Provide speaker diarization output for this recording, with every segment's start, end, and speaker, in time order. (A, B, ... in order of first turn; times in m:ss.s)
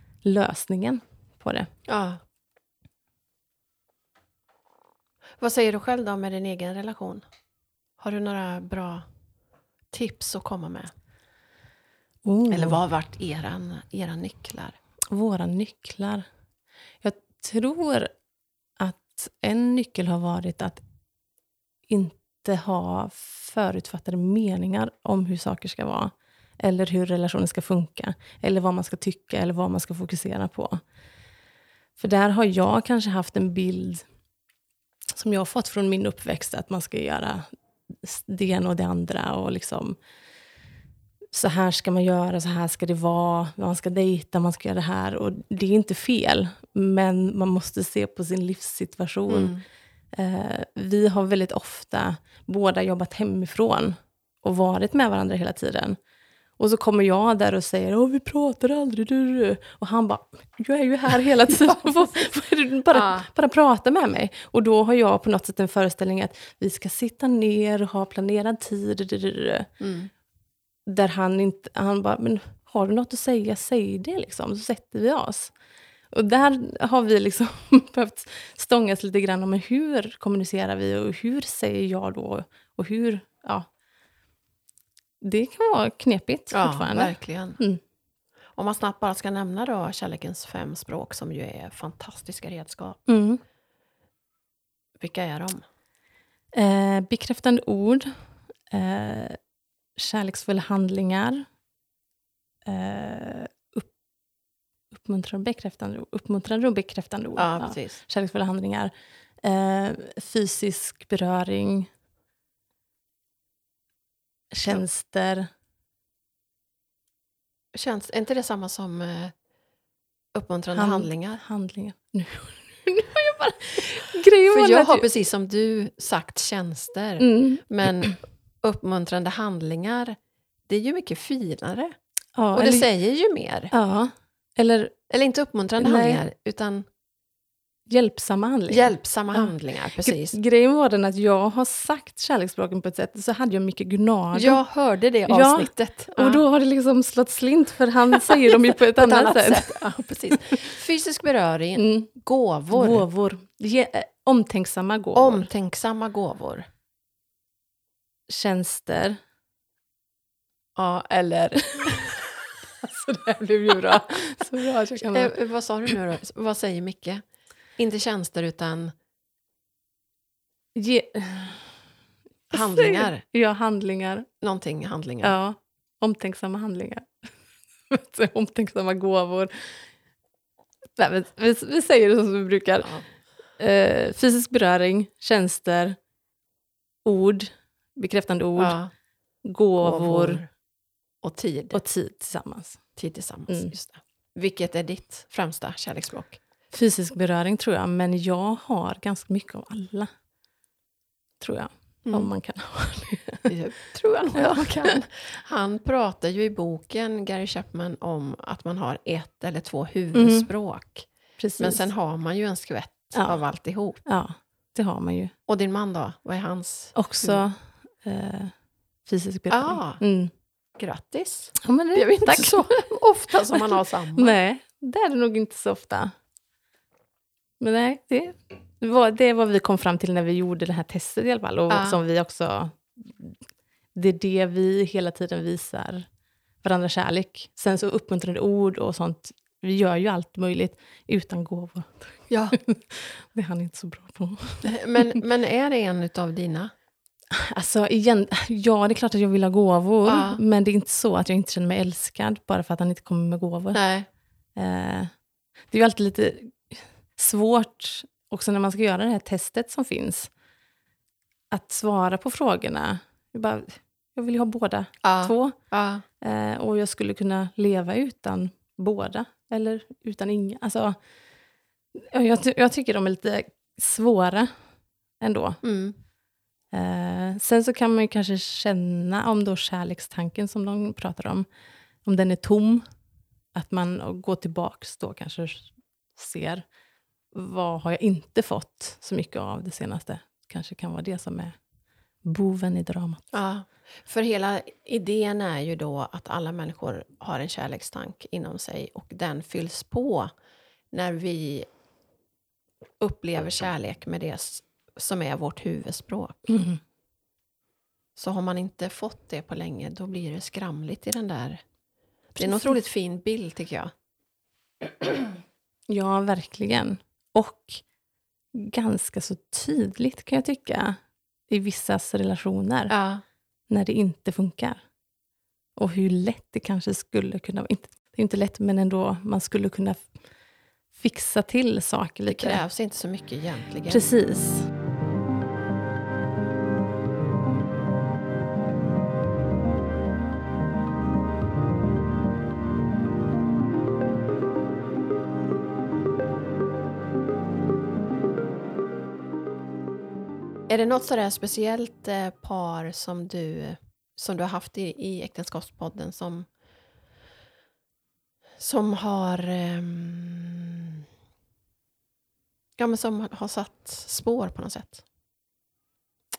0:00.2-0:01.7 A
0:01.9-0:02.2 B
0:05.4-0:07.2 B
0:08.0-0:09.1 B
0:09.9-0:10.9 B
0:12.2-0:12.8 A
0:12.5-0:14.8 B
0:15.1-0:16.2 A
0:17.0-0:18.1 A
0:18.8-0:20.8 A
0:21.9-0:30.8 A
0:32.0-0:34.0 A
0:35.1-0:37.5 A
0:38.0-0:40.0 A
0:41.3-0:49.5 A
0:49.3-0:49.6 B
0:50.1-0:56.0 A
0:56.6-1:09.7 A
1:02.9-1:03.3 B
1:09.8-1:10.1 B
1:10.8-1:15.5 A
1:16.1-1:23.7 A
1:25.2-1:27.8 A
1:26.5-1:27.6 B
1:28.6-1:33.0 B
1:33.1-1:33.4 A
1:35.0-1:35.6 B
1:36.5-1:38.1 A
1:38.7-1:39.4 A
1:40.0-1:41.4 A
1:42.6-1:43.9 A
1:44.9-1:51.9 A
1:47.4-1:48.0 B
1:54.5-1:55.5 A
1:57.7-1:59.3 B
2:00.3-2:01.4 B
2:00.7-2:05.1 A
2:04.4-2:10.2 B
2:07.2-2:07.6 A
2:10.7-2:12.0 B
2:12.3-2:12.9 A
2:12.5-2:13.7 B
2:13.7-2:14.9 A
2:15.1-2:16.8 B
2:15.8-2:16.2 A
2:17.9-2:19.5 A
2:18.7-2:20.4 B
2:20.0-2:24.6 A
2:24.3-2:26.4 B
2:25.3-2:29.8 A
2:28.2-2:33.0 B
2:31.8-2:32.1 A
2:32.7-2:35.5 A
2:35.1-2:36.7 B
2:38.3-2:39.2 A
2:40.8-2:42.3 B
2:42.8-2:45.3 A
2:43.2-2:44.2 B
2:45.0-2:47.2 B
2:47.8-2:48.9 B
2:50.7-2:51.7 A
2:52.5-2:53.2 B
2:52.5-2:54.2 A
2:54.4-2:55.4 B
2:55.2-2:57.1 A
2:57.9-2:59.8 A
3:01.0-3:02.9 A
3:03.6-3:06.0 A
3:07.0-3:08.8 A
3:08.6-3:08.9 B
3:09.4-3:10.4 A
3:09.8-3:10.5 B
3:11.2-3:11.8 B
3:11.7-3:12.8 A
3:13.0-3:16.4 B
3:16.7-3:20.1 A
3:21.4-3:23.5 A
3:22.0-3:22.3 B
3:23.4-3:31.1 B
3:24.4-3:24.8 A
3:30.1-3:30.5 A
3:31.4-3:31.9 A
3:31.6-3:34.0 B
3:34.0-3:35.3 A
3:35.5-3:37.4 B
3:36.9-3:38.5 A
3:39.1-3:40.3 A
3:39.5-3:40.0 B
3:40.8-3:44.3 B
3:41.6-3:42.6 A
3:44.2-3:46.1 A
3:47.6-3:53.4 A
3:51.7-3:52.0 B
3:53.9-3:56.1 A
3:56.6-4:05.2 A
4:02.3-4:02.6 B
4:04.6-4:06.7 B
4:07.3-4:13.8 A
4:10.0-4:10.4 B
4:13.7-4:14.1 B
4:14.6-4:15.1 A
4:15.7-4:20.3 A
4:21.5-4:25.6 A
4:25.0-4:26.0 B
4:26.2-4:31.0 A
4:31.9-4:34.5 A
4:35.2-4:35.6 A
4:35.6-4:36.0 B
4:36.7-4:41.4 A
4:42.0-4:42.8 A
4:43.5-4:46.6 A
4:47.3-4:51.5 A
4:52.2-4:53.2 A
4:53.3-5:00.3 B
5:00.9-5:01.7 B
5:03.0-5:06.5 B
5:06.5-5:06.8 A
5:08.2-5:11.6 B
5:12.3-5:13.9 B
5:12.4-5:12.8 A
5:15.9-5:17.8 A
5:18.5-5:21.0 A
5:21.5-5:22.9 A
5:22.9-5:23.2 B
5:23.7-5:24.8 A
5:25.8-5:30.1 A
5:30.9-5:32.6 A
5:32.3-5:34.0 B
5:33.9-5:34.7 A
5:50.7-5:56.5 B
5:58.6-6:01.0 B
6:02.8-6:05.0 B